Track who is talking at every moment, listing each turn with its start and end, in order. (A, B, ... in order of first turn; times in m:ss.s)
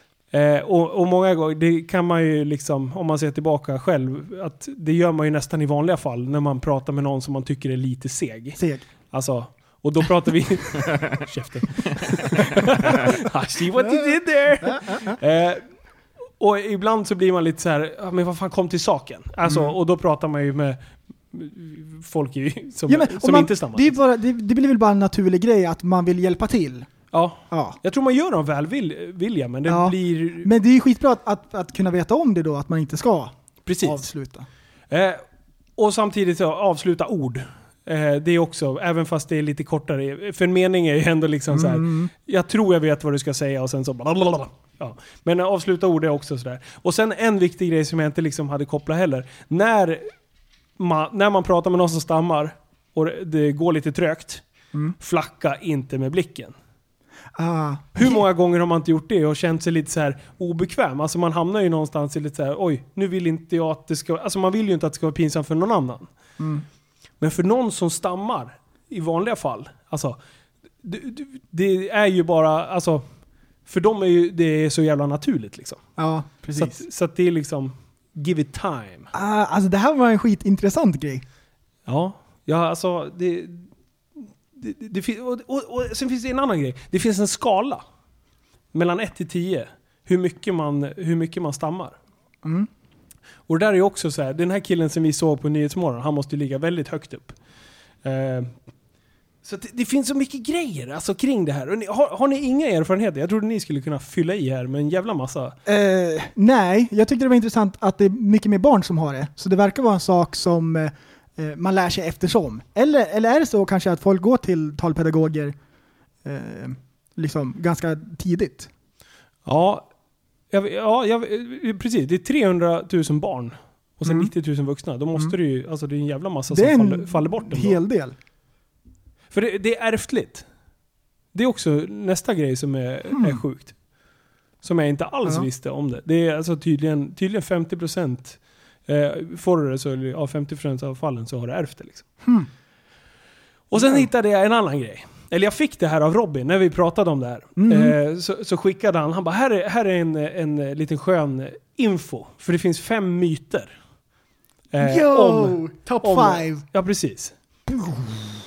0:00.3-0:15.6 A
0:08.6-0:08.8 B
0:13.8-0:15.2 B
0:16.4-0:20.8 A
0:19.5-0:19.7 B
0:21.3-0:24.0 A
0:22.9-0:26.9 B
0:27.1-0:30.5 A
0:27.5-0:27.8 B
0:29.7-0:34.5 B
0:33.6-0:34.0 A
0:34.9-0:35.2 A
0:35.8-0:50.1 A
0:41.5-0:42.1 B
0:50.8-0:54.4 A
0:55.0-0:56.6 A
0:57.4-0:58.2 B
0:58.0-1:06.1 A
1:06.4-1:06.6 B
1:07.2-1:10.2 A
1:10.8-1:13.0 A
1:13.7-1:15.8 A
1:16.0-1:16.8 B
1:16.6-1:19.1 A
1:19.1-1:21.2 B
1:21.9-1:23.7 A
1:24.6-1:27.8 A
1:28.7-1:32.0 A
1:32.4-1:32.7 B
1:33.5-1:37.4 A
1:38.0-1:38.5 A
1:39.4-1:45.6 A
1:45.7-1:55.6 B
1:56.2-1:58.7 B
1:59.5-1:59.9 A
2:00.5-2:07.8 A
2:04.1-2:04.3 B
2:06.5-2:08.2 B
2:09.3-2:10.4 A
2:11.3-2:13.8 A
2:13.1-2:13.4 B
2:14.6-2:22.1 A
2:23.7-2:33.7 A
2:23.8-2:24.1 B
2:27.6-2:28.0 B
2:34.7-2:37.3 A
2:34.8-2:36.6 B